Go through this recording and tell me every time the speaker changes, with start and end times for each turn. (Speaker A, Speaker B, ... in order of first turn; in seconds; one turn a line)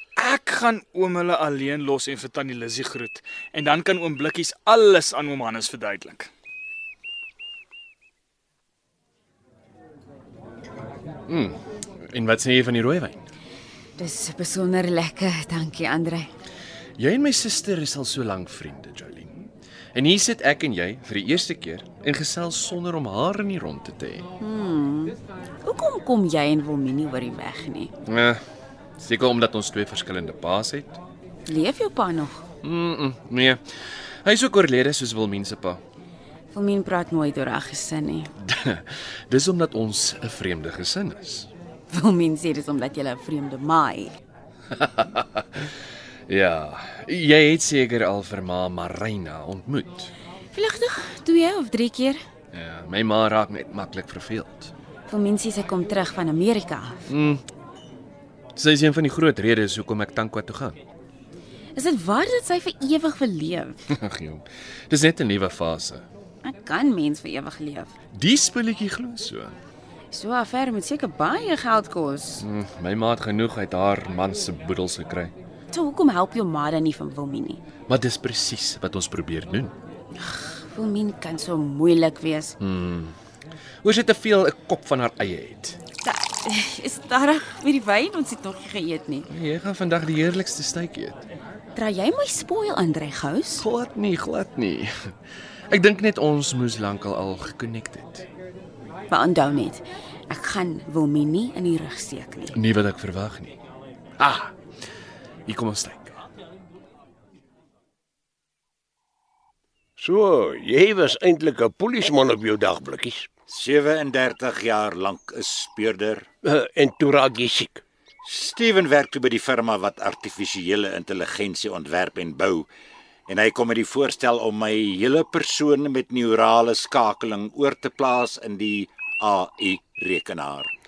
Speaker A: 0.2-6.3
Speaker B: 11.3-11.6
Speaker B: 12.1-13.2
Speaker C: 14.0-16.3
Speaker B: 17.0-24.2
Speaker C: 24.4-27.9
Speaker B: 28.1-28.4
Speaker B: 29.0-31.0
Speaker C: 31.4-32.4
Speaker B: 32.6-33.6
Speaker B: 34.2-35.8
Speaker C: 36.5-38.3
Speaker B: 38.4-41.5
Speaker C: 41.9-44.1
Speaker B: 44.7-45.7
Speaker B: 46.3-50.1
Speaker C: 50.5-52.2
Speaker B: 52.5-54.7
Speaker C: 55.1-57.0
Speaker B: 57.1-57.4
Speaker B: 58.5-60.8
Speaker C: 61.7-63.8
Speaker B: 63.9-66.1
Speaker C: 66.4-67.9
Speaker B: 68.1-69.5
Speaker C: 70.1-72.4
Speaker B: 72.4-75.3
Speaker C: 75.7-77.6
Speaker B: 77.9-79.7
Speaker C: 80.2-82.5
Speaker B: 82.6-83.1
Speaker B: 83.8-85.8
Speaker C: 86.0-89.3
Speaker B: 89.3-91.2
Speaker C: 91.7-93.7
Speaker B: 93.6-95.1
Speaker B: 95.7-98.2
Speaker C: 99.1-102.6
Speaker B: 102.5-103.6
Speaker B: 104.2-104.5
Speaker B: 105.5-106.2
Speaker D: 110.0-113.3
Speaker E: 113.5-116.3
Speaker D: 116.4-117.8
Speaker E: 118.2-122.7
Speaker E: 123.3-130.7